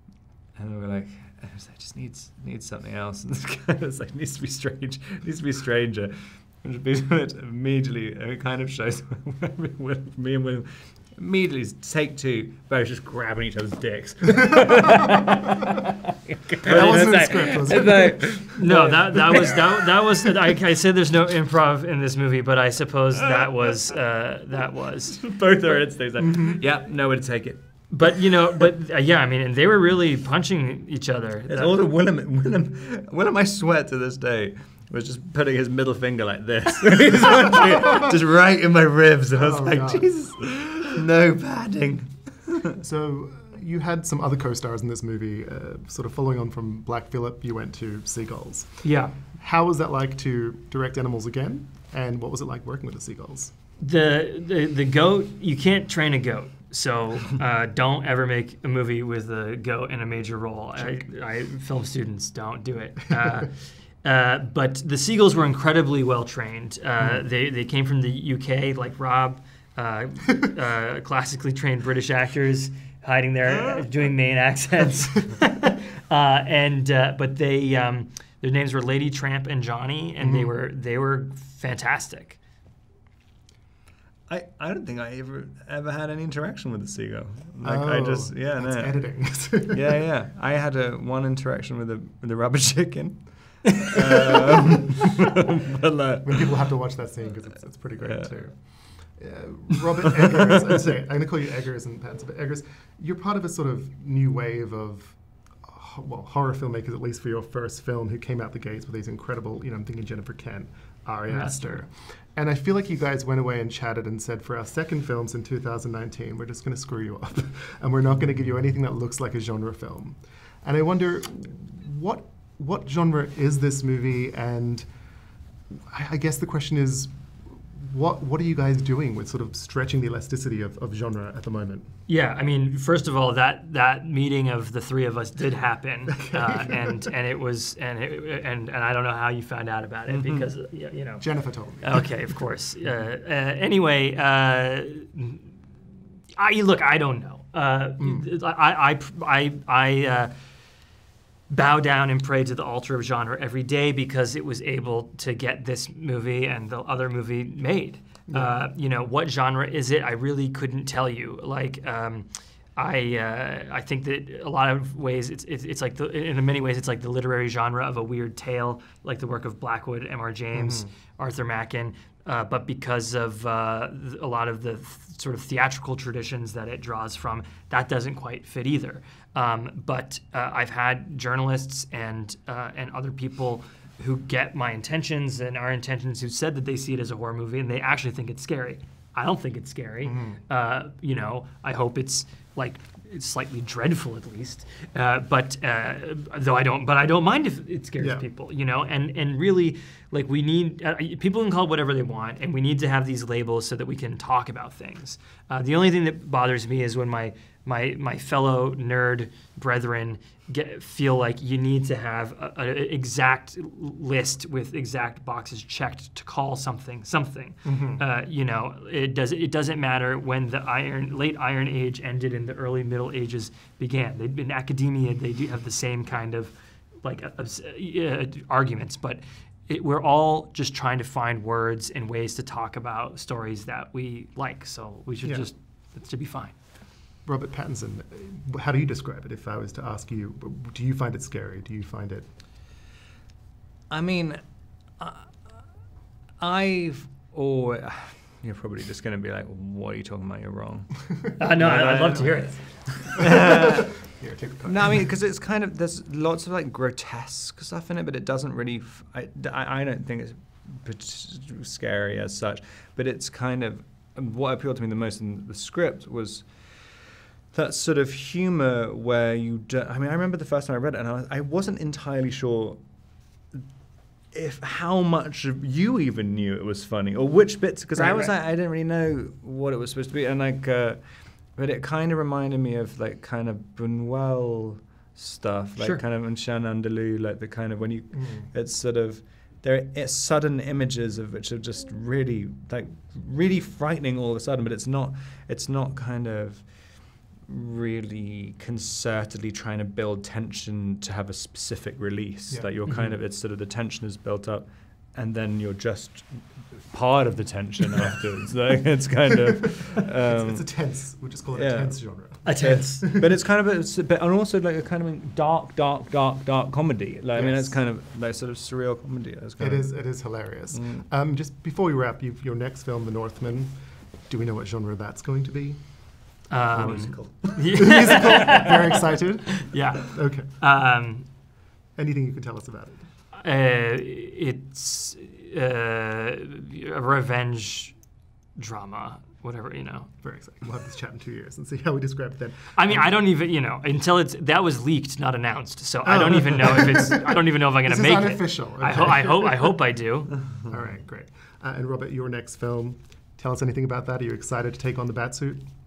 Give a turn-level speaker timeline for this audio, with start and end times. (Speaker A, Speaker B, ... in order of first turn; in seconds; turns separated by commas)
Speaker A: 0.6-19.6, Speaker B: 16.7-19.4, Speaker C: 17.5-17.9, Speaker C: 18.5-25.2, Speaker A: 25.1-27.6, Speaker B: 26.2-26.6, Speaker C: 27.9-31.8, Speaker A: 31.5-42.8, Speaker B: 39.4-40.1, Speaker B: 42.8-53.5, Speaker C: 48.8-49.2, Speaker C: 53.8-82.4, Speaker B: 80.2-80.5, Speaker A: 84.3-96.7, Speaker B: 87.6-90.0, Speaker B: 96.2-124.9, Speaker A: 98.0-98.8, Speaker C: 111.3-111.8, Speaker B: 125.9-131.9, Speaker C: 132.1-141.3, Speaker B: 136.1-137.1, Speaker A: 140.1-140.5, Speaker B: 141.2-142.4, Speaker C: 141.8-145.6, Speaker C: 146.4-150.3, Speaker B: 148.0-148.3, Speaker C: 151.5-236.6, Speaker B: 158.3-158.6, Speaker B: 170.5-170.9, Speaker B: 190.0-190.4, Speaker B: 198.0-198.2, Speaker B: 217.6-218.0, Speaker B: 235.2-235.5, Speaker B: 237.2-242.3, Speaker A: 243.9-244.4, Speaker A: 245.0-245.7, Speaker A: 246.4-254.0, Speaker C: 251.4-252.6, Speaker B: 251.5-255.1, Speaker A: 254.6-272.8, Speaker A: 274.3-310.9, Speaker C: 277.9-278.3, Speaker C: 285.8-286.0, Speaker B: 288.1-288.5, Speaker B: 302.5-302.9, Speaker B: 310.2-313.3, Speaker A: 311.5-321.1, Speaker C: 312.4-313.1, Speaker B: 317.3-317.8, Speaker B: 319.6-323.8, Speaker B: 324.3-326.0, Speaker C: 326.5-328.8, Speaker A: 326.7-327.8, Speaker B: 326.8-330.5, Speaker C: 329.7-331.3, Speaker B: 332.0-333.1, Speaker C: 333.3-338.0, Speaker C: 338.6-340.1, Speaker B: 340.2-343.2, Speaker C: 342.8-350.4, Speaker B: 346.0-349.8, Speaker B: 350.7-355.6